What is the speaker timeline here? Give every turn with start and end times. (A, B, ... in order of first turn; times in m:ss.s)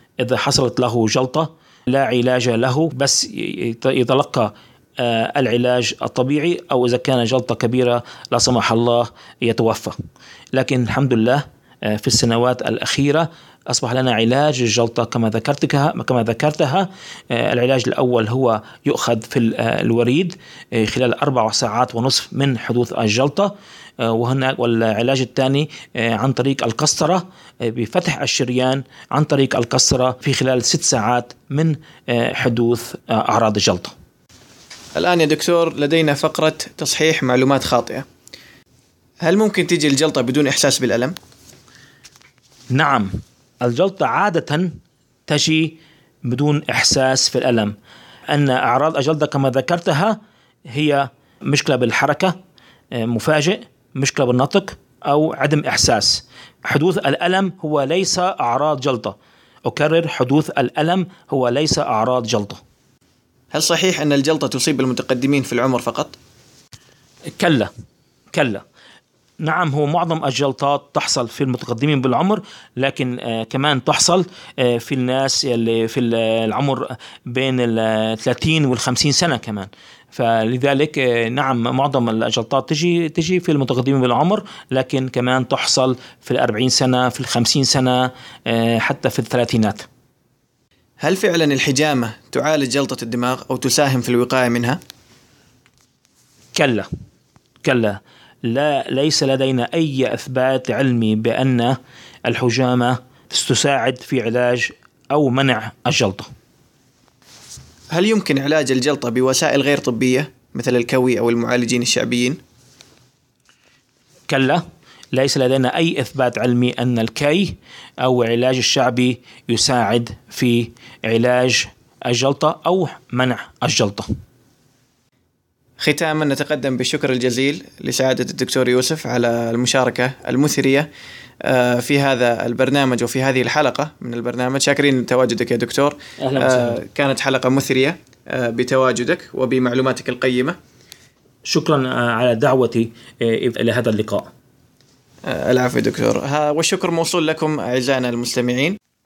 0:00.2-0:10.0 A
0:10.5-0:33.9 A
0:35.0-0:38.0 B
0:39.2-0:41.1 B
0:42.7-0:43.1 A
0:43.6-0:44.7 A
0:45.3-0:47.7 A
0:48.3-0:50.2 A
0:50.7-0:52.3 A
0:53.0-0:59.2 A
0:59.7-1:02.6 A
1:03.5-1:06.2 B
1:07.4-1:07.7 A
1:08.3-1:08.6 A
1:09.4-1:29.9 A
1:31.0-1:34.8 B
1:36.5-1:36.9 A
1:37.6-1:41.8 A
1:42.3-1:46.3 A
1:47.9-1:52.4 B
1:54.3-2:04.1 A
2:05.8-2:10.9 B
2:11.4-2:20.6 B
2:16.2-2:16.8 A
2:21.4-2:24.3 A
2:25.2-2:28.8 B